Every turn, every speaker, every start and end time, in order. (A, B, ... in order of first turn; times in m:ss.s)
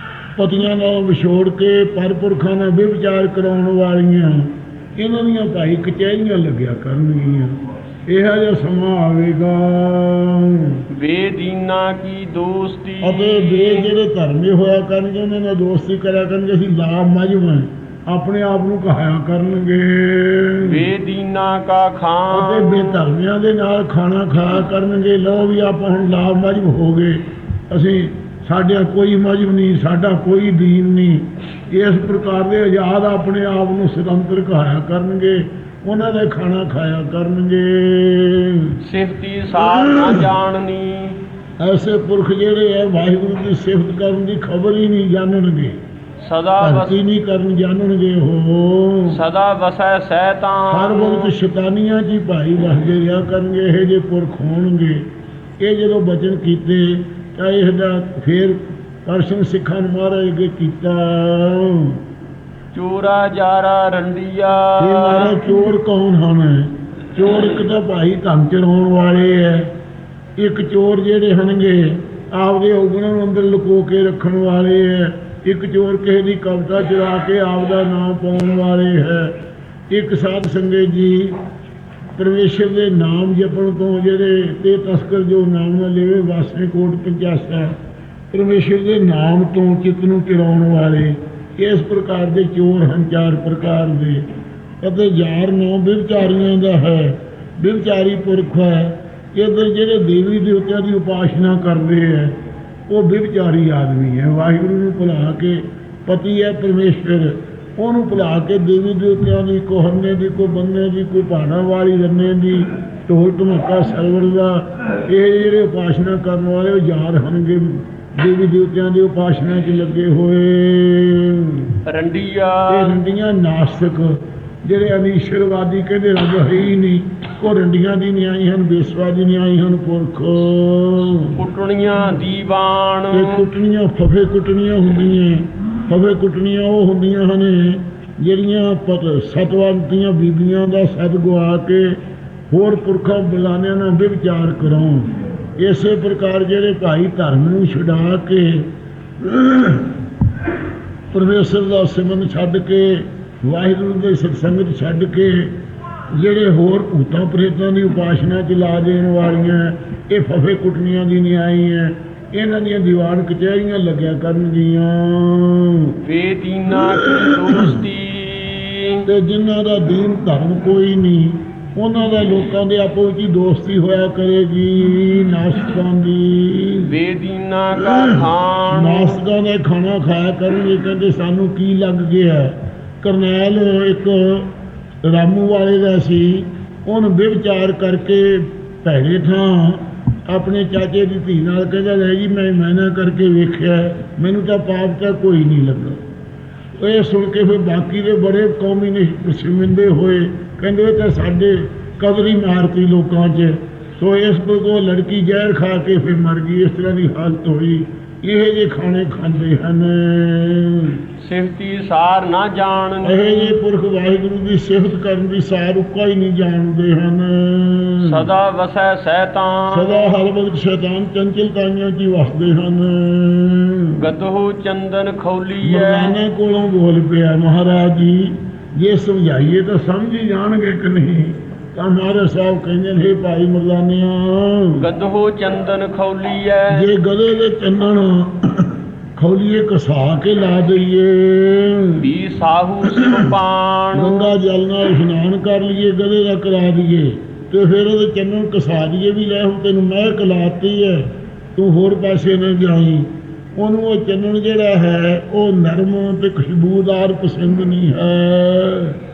0:00.4-0:07.6 A
0:08.1-0:10.8 A
0:10.9-0:14.0 B
0:13.0-0:20.8 A
0:20.6-0:23.0 B
0:22.3-0:38.8 A
0:38.8-0:41.2 B
0:39.7-0:40.3 A
0:41.6-0:45.8 A
0:46.2-0:47.0 B
0:46.6-0:49.2 A
0:49.1-0:51.3 B
0:50.7-0:55.0 A
0:55.6-1:02.0 A
1:02.7-1:05.4 B
1:04.8-1:09.7 A
1:10.4-1:19.3 A
1:19.9-1:21.4 A
1:22.2-1:27.7 A
1:28.3-1:34.2 A
1:34.8-1:42.4 A
1:42.9-2:01.7 A
2:01.9-2:03.0 B
2:02.7-2:11.4 A
2:11.4-2:13.5 B
2:13.1-2:22.0 A
2:22.5-2:28.7 A
2:29.2-2:30.0 A
2:31.1-2:35.5 A
2:36.1-2:46.0 A
2:46.0-2:49.1 B
2:47.0-2:47.8 A
2:49.1-2:56.9 A
2:56.9-2:59.2 B
2:57.9-3:04.5 A
3:05.0-3:16.0 A
3:16.8-3:31.0 A
3:31.2-3:33.6 B
3:33.0-3:38.3 A
3:38.0-3:40.2 B
3:39.7-3:44.0 A
3:44.0-3:46.2 B
3:45.6-3:54.8 A
3:54.8-3:56.8 B
3:56.7-4:02.0 A
4:02.0-4:04.3 B
4:04.0-4:19.0 A